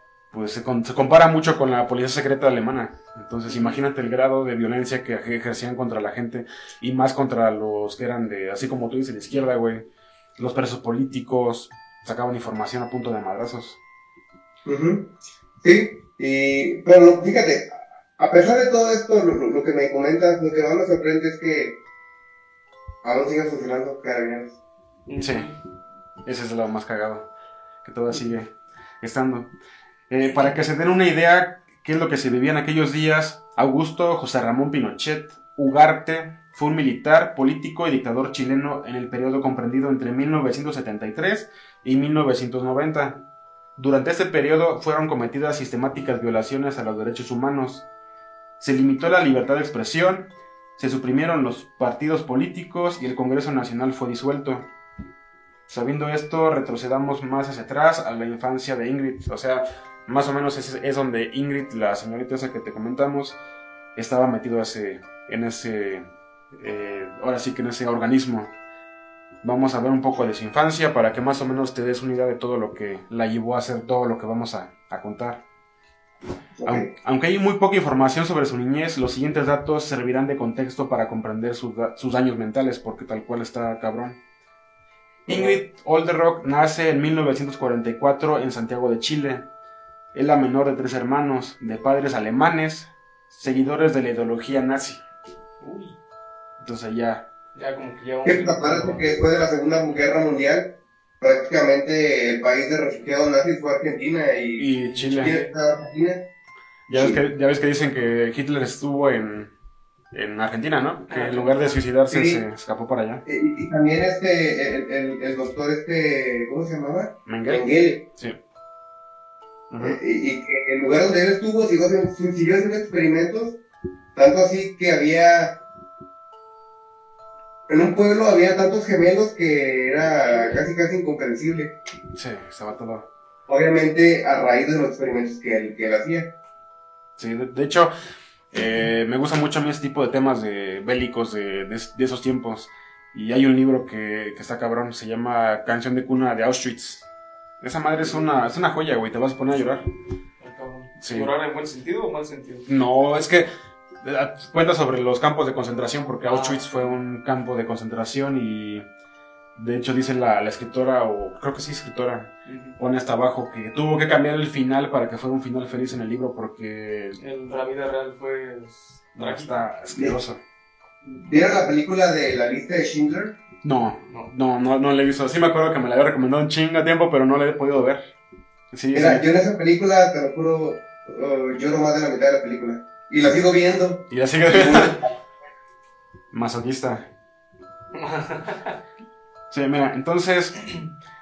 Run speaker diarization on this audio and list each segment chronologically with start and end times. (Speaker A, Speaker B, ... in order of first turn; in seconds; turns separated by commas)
Speaker A: 0.3-9.9, Speaker B: 3.5-3.8, Speaker A: 10.4-13.8, Speaker C: 14.7-21.8, Speaker C: 23.0-24.6, Speaker B: 25.1-25.6, Speaker A: 25.2-25.5, Speaker A: 26.2-27.3, Speaker A: 27.8-29.5, Speaker A: 30.1-43.2, Speaker B: 30.3-30.6, Speaker A: 43.8-47.8, Speaker A: 48.6-54.7, Speaker A: 55.7-63.4, Speaker A: 63.9-68.5, Speaker A: 69.4-75.4, Speaker C: 76.6-76.9, Speaker A: 76.6-84.2, Speaker A: 85.2-89.4, Speaker C: 85.3-85.6, Speaker A: 90.1-95.0, Speaker B: 95.6-96.0, Speaker A: 96.6-97.3, Speaker B: 97.5-99.0, Speaker C: 98.2-106.2, Speaker A: 104.6-105.3, Speaker B: 104.8-105.5, Speaker A: 106.9-109.5, Speaker C: 106.9-107.2, Speaker A: 110.1-113.2, Speaker B: 111.1-111.7, Speaker C: 112.1-112.4, Speaker C: 113.2-118.0, Speaker A: 117.3-118.4, Speaker A: 119.7-120.0, Speaker C: 119.8-123.6, Speaker C: 124.1-125.6, Speaker C: 127.7-131.7, Speaker B: 130.3-130.6, Speaker A: 132.1-133.1, Speaker C: 133.5-136.3, Speaker A: 137.2-137.9, Speaker A: 138.5-147.1, Speaker A: 147.6-149.8, Speaker B: 150.4-152.7, Speaker A: 151.0-151.3, Speaker A: 152.7-153.5, Speaker A: 154.0-158.8, Speaker B: 156.2-156.9, Speaker A: 159.6-167.2, Speaker B: 162.4-162.8, Speaker B: 167.2-169.6, Speaker A: 169.2-170.4, Speaker C: 171.1-173.3, Speaker A: 173.6-178.1, Speaker A: 178.7-179.2, Speaker C: 178.9-185.1, Speaker A: 184.1-185.0, Speaker A: 186.3-187.1, Speaker B: 187.9-188.8, Speaker A: 189.5-190.6